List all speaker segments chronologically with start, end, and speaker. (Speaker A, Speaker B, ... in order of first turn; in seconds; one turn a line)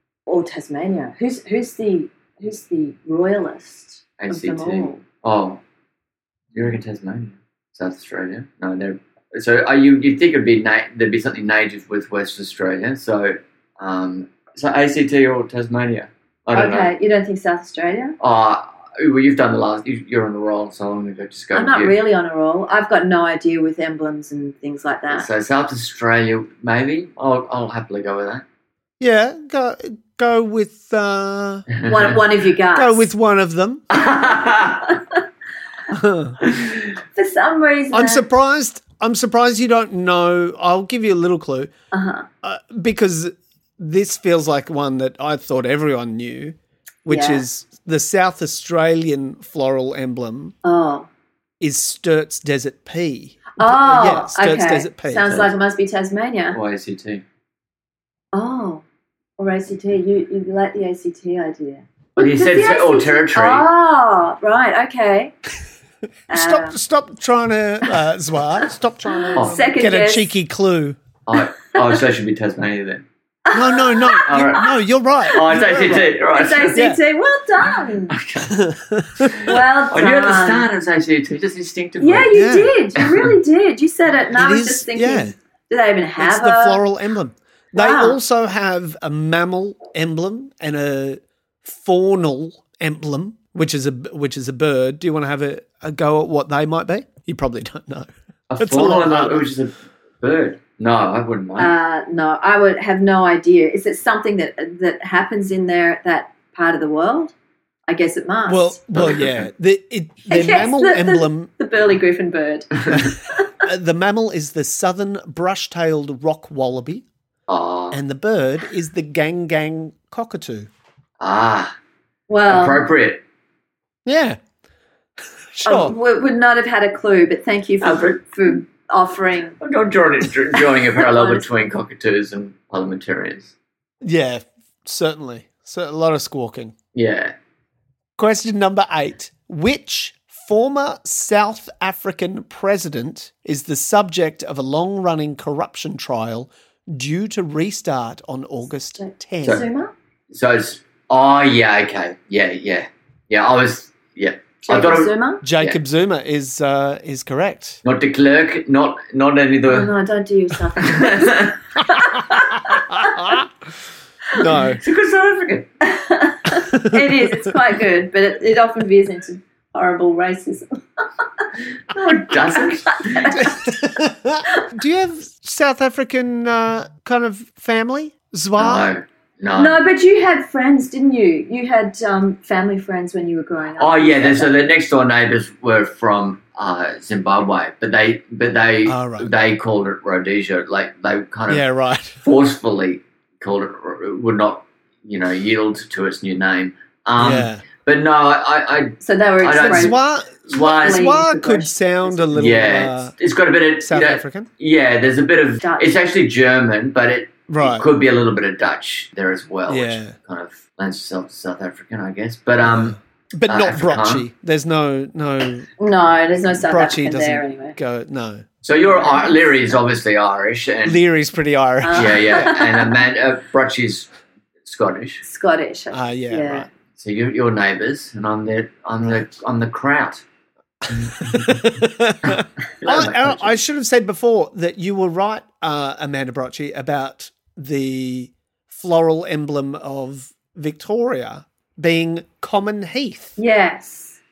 Speaker A: 0.3-5.0
Speaker B: 4.2-5.6
Speaker B: 6.5-16.9
Speaker A: 16.5-18.2
Speaker B: 18.2-21.9
Speaker A: 21.5-25.3
Speaker B: 25.1-28.4
Speaker C: 29.0-31.7
Speaker B: 31.7-32.2
Speaker A: 31.8-33.1
Speaker C: 32.7-33.8
Speaker B: 33.9-34.9
Speaker A: 34.4-35.2
Speaker C: 35.9-36.4
Speaker B: 36.4-36.9
Speaker A: 37.1-38.3
Speaker C: 37.9-41.7
Speaker A: 41.9-42.3
Speaker C: 42.4-50.5
Speaker A: 47.1-47.4
Speaker A: 50.6-51.1
Speaker C: 51.6-55.5
Speaker A: 53.6-56.6
Speaker B: 56.5-57.2
Speaker A: 58.3-58.8
Speaker A: 59.4-65.3
Speaker B: 62.2-63.7
Speaker C: 66.3-71.0
Speaker A: 66.3-66.8
Speaker A: 69.1-70.3
Speaker B: 69.3-69.6
Speaker B: 71.3-73.0
Speaker A: 73.5-74.6
Speaker C: 73.5-76.1
Speaker B: 74.3-74.8
Speaker A: 75.3-75.6
Speaker B: 75.3-76.8
Speaker A: 76.3-78.2
Speaker C: 76.7-77.0
Speaker B: 78.1-78.5
Speaker C: 78.5-79.5
Speaker B: 79.3-82.3
Speaker A: 79.4-80.7
Speaker A: 82.0-86.8
Speaker C: 82.3-82.7
Speaker B: 83.0-83.3
Speaker C: 84.3-85.3
Speaker C: 86.2-98.1
Speaker A: 87.8-88.2
Speaker B: 98.5-101.7
Speaker C: 98.6-99.5
Speaker A: 101.6-107.3
Speaker A: 107.9-109.2
Speaker C: 108.5-111.5
Speaker B: 109.0-109.3
Speaker A: 110.3-113.5
Speaker C: 112.9-117.0
Speaker B: 117.5-118.0
Speaker C: 117.9-120.7
Speaker B: 121.2-121.7
Speaker A: 122.3-122.8
Speaker B: 122.5-123.2
Speaker C: 124.0-124.4
Speaker C: 125.5-126.0
Speaker A: 125.7-129.6
Speaker B: 127.8-128.5
Speaker B: 129.6-133.5
Speaker A: 131.0-131.4
Speaker C: 134.0-136.8
Speaker B: 136.9-137.3
Speaker C: 138.2-149.6
Speaker A: 148.9-149.9
Speaker B: 150.3-155.8
Speaker A: 154.7-155.4
Speaker C: 155.4-157.8
Speaker B: 157.8-159.9
Speaker A: 159.7-163.3
Speaker B: 160.8-161.6
Speaker C: 162.7-163.5
Speaker C: 164.3-164.8
Speaker B: 164.8-165.7
Speaker A: 165.8-170.7
Speaker C: 166.7-167.3
Speaker B: 171.9-173.4
Speaker A: 172.5-173.6
Speaker C: 173.4-178.9
Speaker B: 178.6-179.8
Speaker A: 179.6-184.6
Speaker B: 183.8-191.6
Speaker C: 188.8-189.3
Speaker C: 191.5-192.2
Speaker B: 192.2-199.9
Speaker C: 197.2-197.6
Speaker A: 199.0-199.9
Speaker C: 199.6-203.1
Speaker B: 200.5-201.1
Speaker A: 200.6-202.3
Speaker B: 202.3-213.0
Speaker C: 203.8-204.5
Speaker A: 205.6-205.9
Speaker C: 207.5-207.9
Speaker C: 209.7-210.1
Speaker C: 212.6-215.7
Speaker B: 213.5-214.2
Speaker A: 215.8-217.8
Speaker C: 216.5-218.4
Speaker B: 218.6-221.0
Speaker A: 218.8-219.8
Speaker C: 220.8-222.5
Speaker A: 221.8-223.0
Speaker B: 221.9-224.1
Speaker B: 224.6-225.2
Speaker A: 225.2-226.7
Speaker C: 225.9-226.7
Speaker B: 226.9-230.2
Speaker B: 230.9-233.6
Speaker C: 231.2-243.4
Speaker A: 243.4-244.2